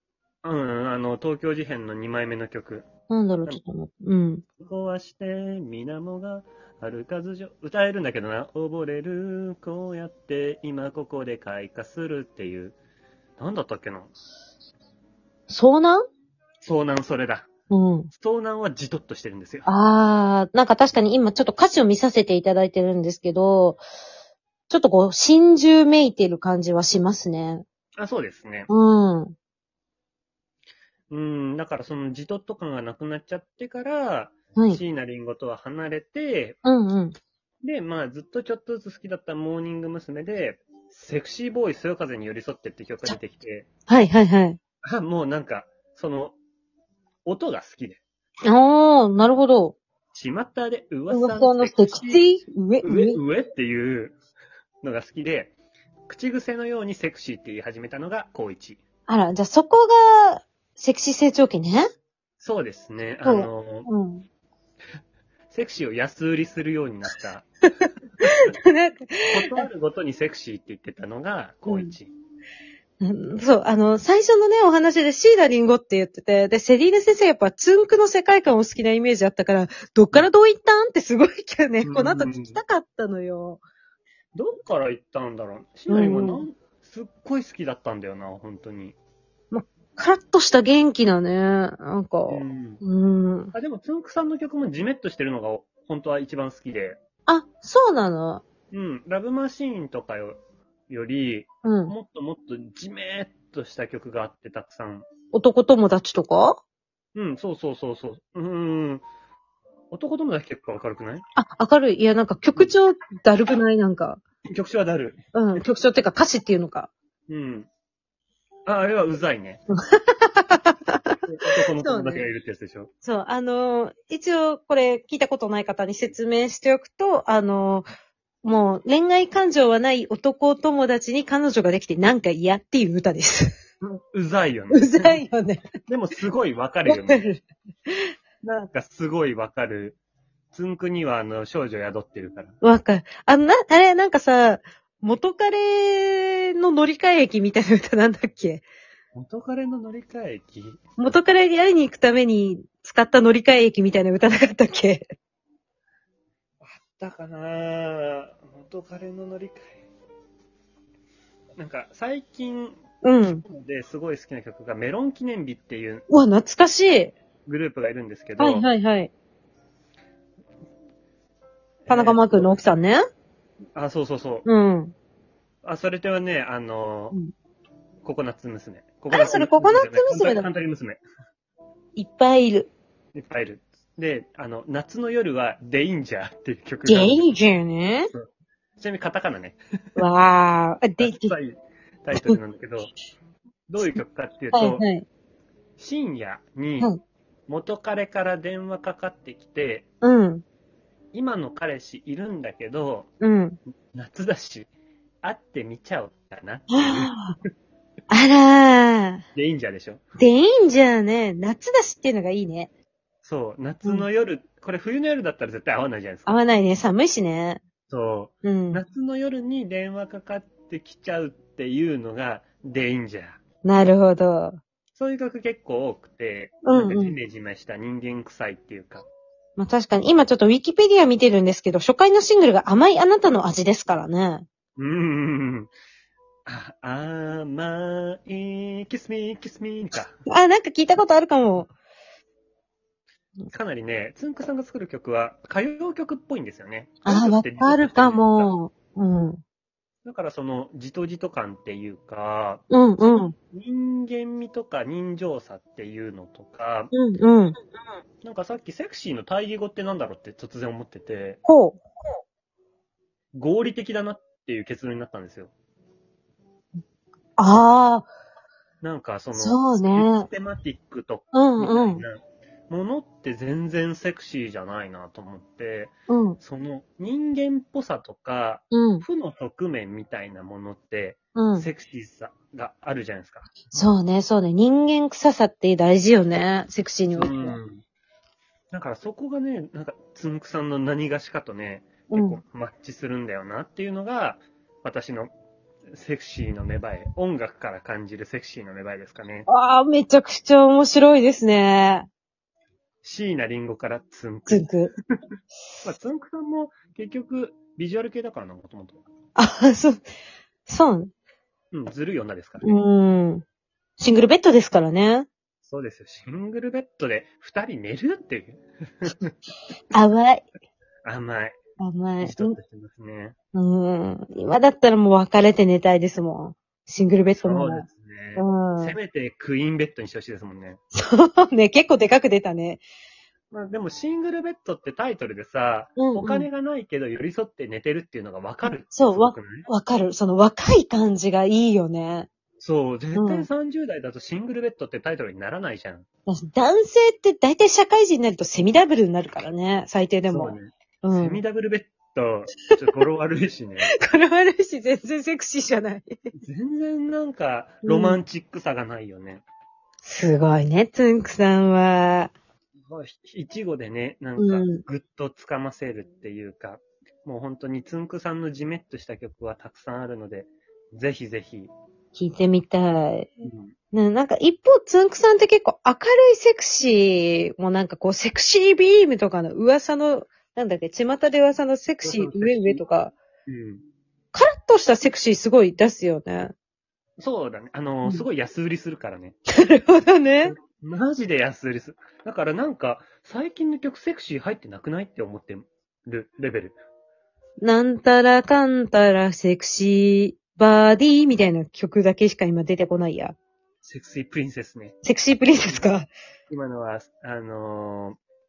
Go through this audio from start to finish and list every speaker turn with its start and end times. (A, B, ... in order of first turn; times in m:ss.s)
0:00.4-0:02.9 A
0:03.1-0:04.4 B
0:04.6-0:12.8 A
0:13.4-0:14.1 A
0:15.5-0:16.0 B
0:16.6-0:17.5 A
0:17.7-0:18.1 B
0:18.1-0:19.7 A
0:19.6-0:23.8 B
0:24.7-0:27.6 B
0:28.0-0:28.7 A
0:28.7-0:29.3 B
0:31.1-0:36.6 A
0:34.6-0:34.8 B
0:36.6-0:37.2 B
0:37.6-0:43.7 A
0:43.9-0:44.6 B
0:44.8-0:46.4 A
0:47.2-0:48.0 A
0:48.4-0:49.8 B
0:50.1-0:52.2 A
0:51.1-0:53.2 B
0:52.8-0:54.1 A
0:54.8-0:55.6 A
0:56.1-0:58.8 A
0:59.1-1:01.8 B
1:02.4-1:03.9 A
1:03.2-1:04.2 B
1:05.5-1:07.5 A
1:08.2-1:09.5 B
1:08.2-1:08.5 A
1:09.3-1:12.1 A
1:11.7-1:11.9 B
1:13.0-1:23.6 B
1:21.8-1:22.6 A
1:24.3-1:29.0 A
1:25.9-1:26.4 B
1:29.5-1:33.5 B
1:32.3-1:32.8 A
1:33.5-1:37.0 A
1:37.3-1:38.4 B
1:38.7-1:45.1 A
1:41.6-1:41.9 B
1:45.3-1:46.6 B
1:47.1-1:49.0 A
1:49.9-1:51.2 A
1:51.4-1:54.2 B
1:54.5-1:55.6 A
1:55.3-1:56.9 B
1:57.3-1:57.7 A
1:58.6-1:59.6 A
1:59.7-2:01.2 B
2:01.2-2:02.9 A
2:01.8-2:02.2 B
2:03.0-2:07.9 B
2:08.4-2:13.6 B
2:13.8-2:15.2 A
2:14.7-2:15.6 B
2:15.9-2:17.2 A
2:16.8-2:18.1 B
2:18.4-2:20.0 A
2:20.5-2:22.5 A
2:22.6-2:28.6 B
2:29.1-2:30.8 A
2:31.0-2:35.1 B
2:36.6-2:39.8 A
2:41.6-2:46.0 A
2:43.0-2:43.4 B
2:46.1-2:47.1 B
2:47.4-2:48.7 A
2:48.4-2:49.1 B
2:51.8-2:52.6 A
2:51.9-2:53.0 B
2:53.8-2:54.4 A
2:54.4-2:54.9 B
2:55.6-2:57.2 A
2:58.0-3:01.0 A
2:59.1-3:00.5 B
3:02.0-3:02.7 B
3:03.1-3:07.4 A
3:06.8-3:08.1 B
3:08.8-3:10.0 A
3:10.0-3:11.4 B
3:11.0-3:12.9 A
3:13.7-3:14.8 A
3:14.5-3:15.0 B
3:15.8-3:16.9 A
3:17.5-3:19.9 A
3:20.0-3:20.4 B
3:21.1-3:23.1 A
3:23.2-3:23.6 B
3:23.9-3:24.7 A
3:25.2-3:27.2 A
3:26.7-3:27.3 B
3:28.1-3:29.2 B
3:29.3-3:30.0 A
3:30.2-3:32.7 B
3:33.2-3:36.4 A
3:36.3-3:37.6 B
3:37.9-3:43.4 A
3:38.4-3:38.8 B
3:43.6-3:44.6 B
3:45.0-3:49.0 A
3:46.6-3:47.2 B
3:49.6-3:54.4 B
3:54.8-3:55.7 A
3:56.4-4:00.2 A
4:00.3-4:01.7 B
4:03.5-4:08.5 A
4:07.0-4:09.4 B
4:10.0-4:16.9 A
4:12.7-4:13.3 B
4:16.9-4:17.6 B
4:18.2-4:21.4 A
4:21.4-4:21.8 B
4:23.3-4:25.5 A
4:27.4-4:28.1 B
4:28.8-4:43.9 A
4:29.3-4:30.3 B
4:31.3-4:32.0 B
4:36.1-4:36.4 B
4:38.7-4:39.0 B
4:41.3-4:41.7 B
4:43.7-4:47.6 B
4:47.1-4:47.8 A
4:48.7-4:55.3 A
4:52.1-4:52.4 B
4:55.9-4:59.5 A
4:59.5-5:02.1 B
5:03.0-5:04.8 A
5:04.5-5:04.9 B
5:05.8-5:09.0 A
5:09.4-5:10.1 B
5:10.7-5:11.1 B
5:11.7-5:12.8 A
5:12.6-5:13.4 B
5:14.0-5:15.3 B
5:15.6-5:19.3 A
5:19.9-5:20.4 B
5:21.0-5:21.6 A
5:21.8-5:22.6 B
5:22.2-5:23.3 A
5:23.5-5:27.8 B
5:27.3-5:30.8 A
5:28.4-5:29.0 B
5:30.9-5:32.8 B
5:33.5-5:39.7 A
5:36.0-5:36.5 B
5:38.9-5:42.3 B
5:42.6-5:46.0 A
5:43.2-5:43.5 B
5:46.3-5:51.4 B
5:50.3-5:53.9 A
5:54.0-5:56.2 B
5:56.3-5:59.4 A
5:57.8-5:58.2 B
6:00.0-6:02.3 B
6:02.8-6:11.7 A
6:04.4-6:04.8 B
6:12.1-6:13.3 B
6:13.4-6:13.7 A
6:13.9-6:23.1 B
6:22.0-6:22.8 A
6:23.5-6:23.8 A
6:24.3-6:26.5 B
6:27.2-6:29.4 A
6:29.5-6:30.5 B
6:30.4-6:36.8 A
6:37.6-6:43.4 B
6:43.8-6:45.0 A
6:45.0-6:46.1 B
6:45.6-6:45.9 A
6:46.5-6:48.2 A